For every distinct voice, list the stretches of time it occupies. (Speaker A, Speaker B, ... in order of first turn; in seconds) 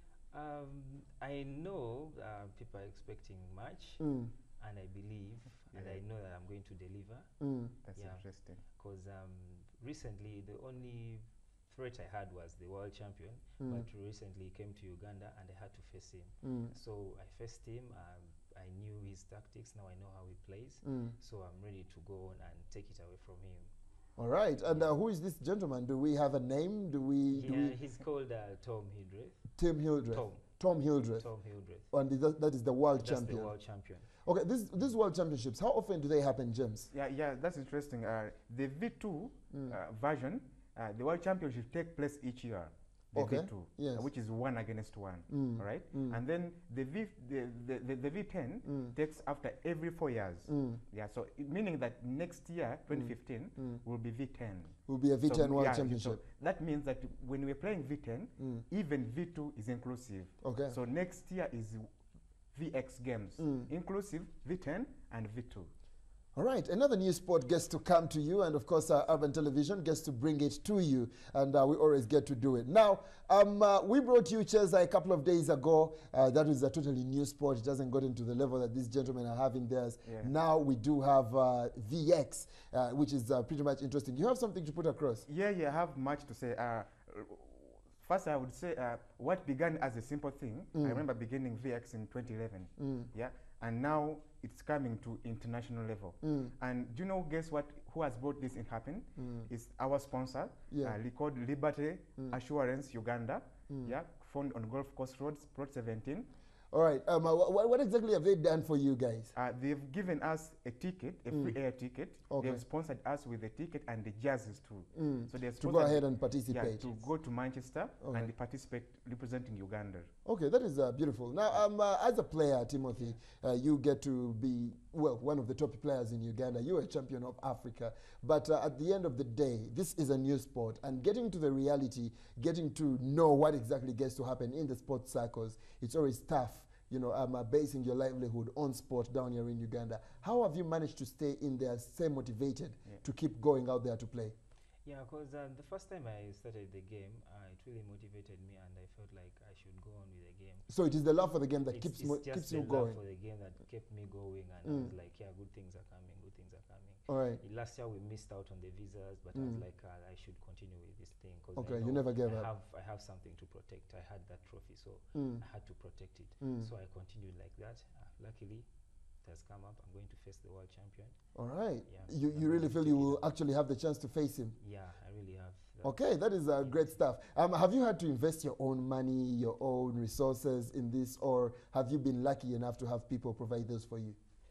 Speaker A: 0.3-4.0, 4.6-7.3, 8.0-23.7, 27.3-31.9, 32.9-34.1, 144.8-150.7, 151.7-173.3, 174.6-177.0
Speaker B: 4.0-4.3, 7.4-7.8, 16.4-16.7, 20.8-21.1, 24.2-27.8, 29.6-31.3, 31.9-33.5, 34.2-36.9, 43.1-44.1, 45.3-46.2, 48.6-48.9, 50.5-50.8, 52.9-53.8, 54.9-56.2, 58.4-58.6, 60.4-60.8, 63.4-63.7, 66.3-85.2, 90.7-91.0, 92.8-93.1, 96.2-96.5, 99.2-99.5, 100.7-101.0, 106.7-109.3, 112.3-112.6, 114.9-117.1, 118.0-118.3, 120.2-144.3, 150.7-153.0, 154.6-154.9, 157.1-157.4, 159.3-159.6, 161.6-162.5, 165.1-165.4, 166.4-166.7, 171.3-174.6, 175.8-184.2
Speaker C: 5.7-6.0, 7.8-8.6, 36.9-61.9, 62.5-65.7, 80.0-80.3, 85.2-106.3, 109.3-120.1